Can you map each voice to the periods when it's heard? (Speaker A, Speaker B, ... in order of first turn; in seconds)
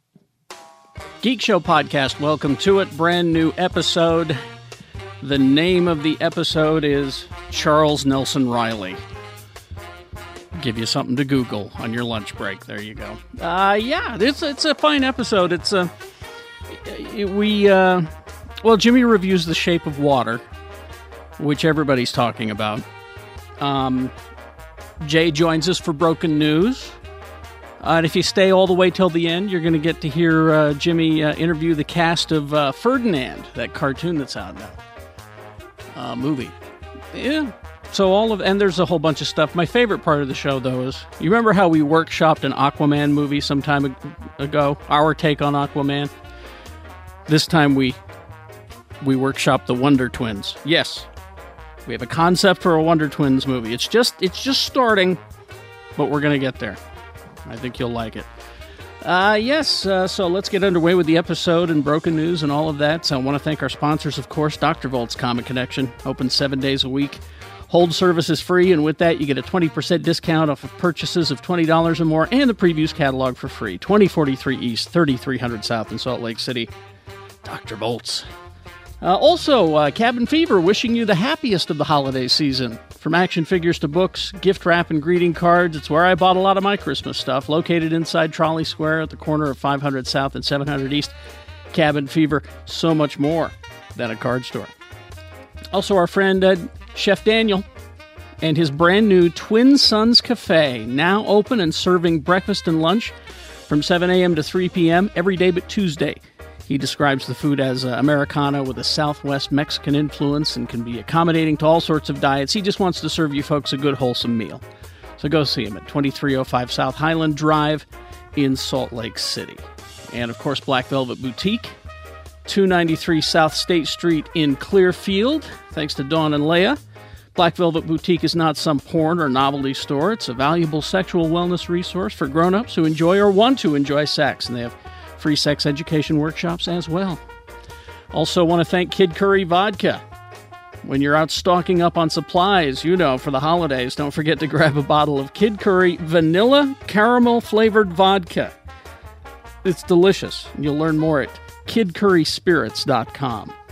Speaker A: 1.2-4.4, 5.2-9.0, 10.5-15.9, 16.7-18.1, 18.6-20.4, 21.4-22.9, 23.6-24.1, 25.0-26.9, 27.8-34.8, 36.0-36.5, 37.1-46.1, 47.3-48.0, 49.0-51.1, 51.9-55.2, 56.0-56.8, 57.5-58.3, 59.0-76.7, 77.4-78.3, 79.0-91.1, 91.7-94.7, 95.7-97.7, 98.4-103.1, 103.7-114.6, 115.2-121.8, 122.5-126.8, 127.3-137.2, 138.1-140.0, 140.8-148.5, 149.6-153.5